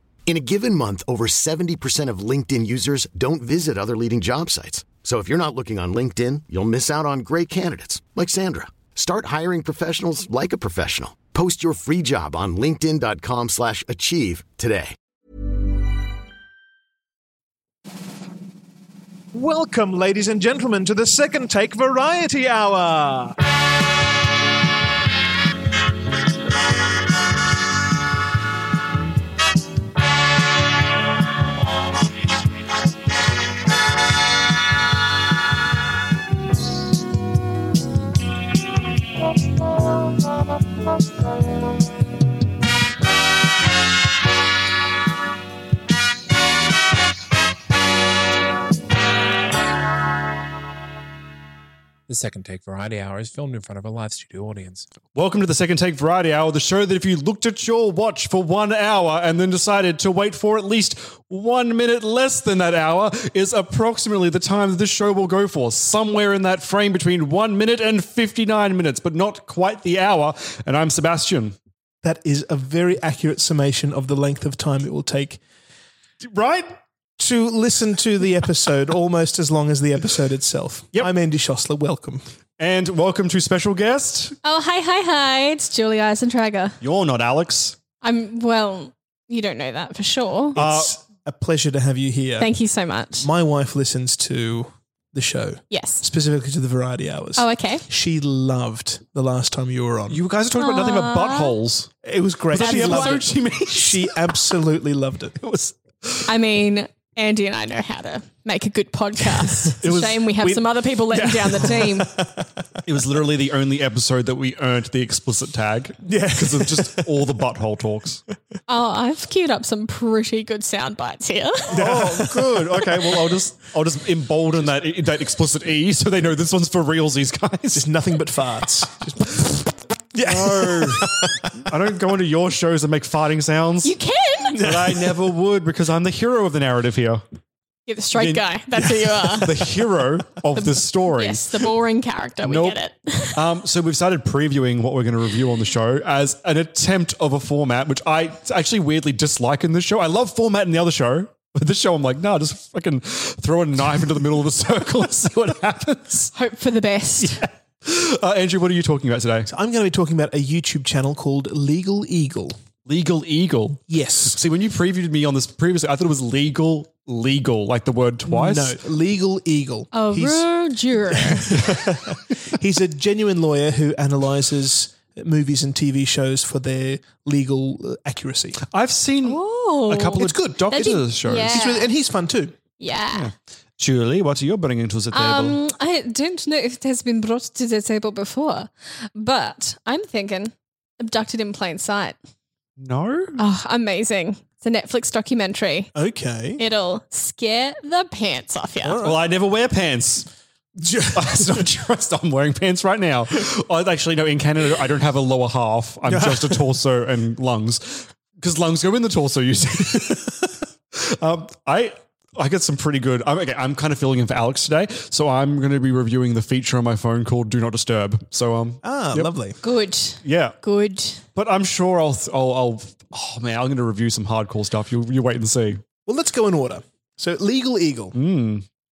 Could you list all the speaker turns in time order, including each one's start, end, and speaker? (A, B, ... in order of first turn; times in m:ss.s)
0:00.3-0:15.0 A
0:19.3-0:23.4 B
0:52.1-0:54.9 C
0:55.1-1:11.6 D
1:12.0-1:15.4 B
1:16.2-1:16.8 D
1:17.2-1:22.2 B
1:22.6-1:24.4 D
1:24.4-1:26.8 E
1:26.8-1:27.8 D
1:28.0-1:30.6 E
1:30.6-1:31.0 D
1:30.6-1:32.5 B
1:32.4-1:33.3 E
1:33.2-1:40.2 B
1:35.7-1:36.0 E
1:37.4-1:37.8 E
1:40.1-1:41.9 D
1:40.6-1:41.6 E
1:42.0-1:45.4 B
1:42.5-1:44.2 D
1:42.5-1:43.3 E
1:45.4-1:46.4 D
1:46.3-1:52.1 E
1:49.6-1:52.5 B
1:52.8-1:58.2 D
1:56.1-1:57.2 B
1:58.7-2:01.7 E
2:01.7-2:07.9 D
2:01.7-2:02.9 B
2:07.7-2:09.6 B
2:10.2-2:11.5 B
2:10.2-2:14.0 D
2:13.8-2:14.6 E
2:14.5-2:15.2 B
2:14.6-2:17.2 D
2:17.9-2:19.6 E
2:18.2-2:21.5 D
2:20.5-2:23.4 E
2:22.4-2:22.8 D
2:23.3-2:36.3 D
2:36.3-2:37.4 E
2:37.2-2:39.5 D
2:39.5-2:42.6 B
2:42.9-2:48.8 D
2:43.9-2:44.4 B
2:48.3-2:50.5 B
2:49.9-2:51.7 E
2:51.1-2:58.6 B
2:58.7-3:01.7 D
2:59.2-3:01.9 E
3:00.2-3:02.6 B
3:02.8-3:03.3 E
3:03.1-3:05.6 D
3:05.1-3:12.2 E
3:12.8-3:13.4 D
3:13.4-3:15.9 E
3:16.0-3:16.6 B
3:16.6-3:19.1 E
3:18.8-3:19.2 B
3:19.0-3:20.3 D
3:20.8-3:21.6 B
3:21.1-3:39.3 D
3:26.0-3:26.7 B
3:38.8-3:39.6 B
3:39.6-3:41.2 E
3:40.2-3:40.6 D
3:41.4-3:45.8 D
3:46.1-3:48.2 B
3:48.1-3:48.6 D